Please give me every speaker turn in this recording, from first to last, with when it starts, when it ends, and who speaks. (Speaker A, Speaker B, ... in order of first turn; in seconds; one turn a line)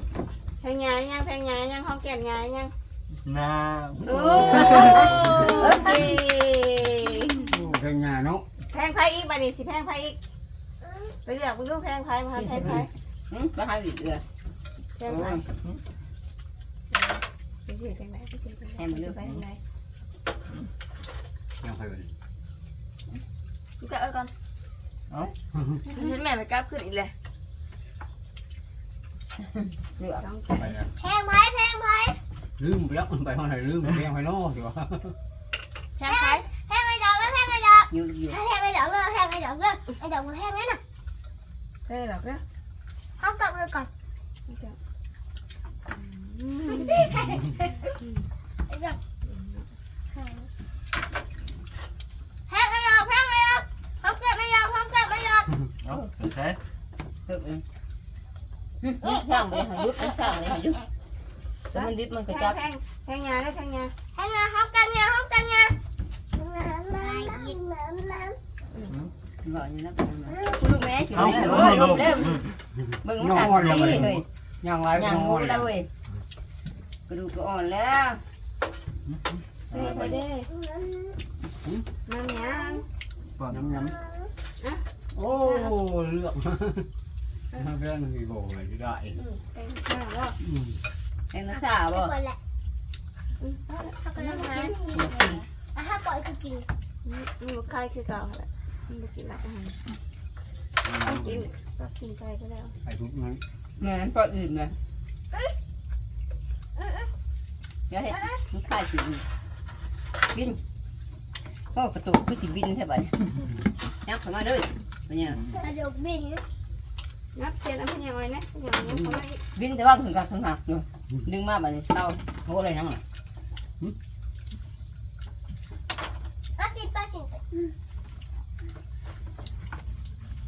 Speaker A: 0.6-2.7
Speaker B: 3.2-5.0
Speaker C: 4.0-5.2
Speaker A: 4.0-7.5
Speaker D: 4.6-5.0
Speaker D: 5.6-6.0
Speaker C: 7.4-8.5
Speaker A: 8.7-10.2
Speaker A: 11.2-12.9
Speaker D: 12.3-14.2
Speaker A: 15.0-15.4
Speaker A: 16.9-19.6
Speaker D: 18.8-19.2
Speaker C: 21.6-22.1
Speaker E: 23.8-24.3
Speaker C: 25.5-25.8
Speaker E: 25.9-27.1
Speaker D: 30.0-30.2
Speaker A: 30.2-30.8
Speaker C: 30.5-30.9
Speaker F: 31.0-32.2
Speaker C: 32.6-35.2
Speaker E: 36.0-36.4
Speaker F: 36.1-40.8
Speaker D: 37.9-38.4
Speaker A: 41.9-42.4
Speaker F: 43.2-43.9
Speaker A: 44.5-44.8
Speaker A: 45.9-47.4
Speaker F: 46.7-47.9
Speaker F: 48.7-49.0
Speaker A: 49.2-49.6
Speaker F: 50.1-50.5
Speaker F: 52.5-55.5
Speaker B: 55.9-56.6
Speaker D: 57.3-57.6
Speaker D: 58.8-60.9
Speaker F: 59.0-59.5
Speaker D: 61.7-62.6
Speaker A: 61.7-63.9
Speaker F: 64.2-65.8
Speaker F: 66.4-68.4
Speaker D: 69.4-72.4
Speaker C: 71.4-71.8
Speaker B: 71.6-71.9
Speaker D: 73.0-74.3
Speaker C: 73.1-75.7
Speaker D: 75.0-75.9
Speaker D: 77.1-78.2
Speaker C: 79.1-80.2
Speaker A: 79.7-80.5
Speaker F: 80.6-81.0
Speaker C: 81.6-81.9
Speaker A: 82.1-82.9
Speaker F: 82.4-82.8
Speaker C: 83.4-84.0
Speaker F: 83.8-84.3
Speaker C: 85.1-86.9
Speaker A: 85.4-85.7
Speaker C: 87.5-89.2
Speaker A: 89.2-90.4
Speaker C: 90.5-90.8
Speaker D: 91.3-92.1
Speaker F: 91.5-92.4
Speaker A: 93.4-94.8
Speaker F: 94.0-95.2
Speaker D: 94.9-95.5
Speaker F: 95.7-96.7
Speaker A: 97.0-99.8
Speaker C: 100.8-101.5
Speaker A: 101.0-102.7
Speaker C: 102.8-103.4
Speaker D: 103.8-104.8
Speaker D: 107.9-109.2
Speaker D: 110.3-110.6
Speaker D: 111.7-113.3
Speaker D: 114.0-115.4
Speaker F: 115.5-116.4
Speaker A: 117.3-119.4
Speaker D: 118.9-122.2
Speaker C: 122.5-123.0
Speaker F: 126.6-127.7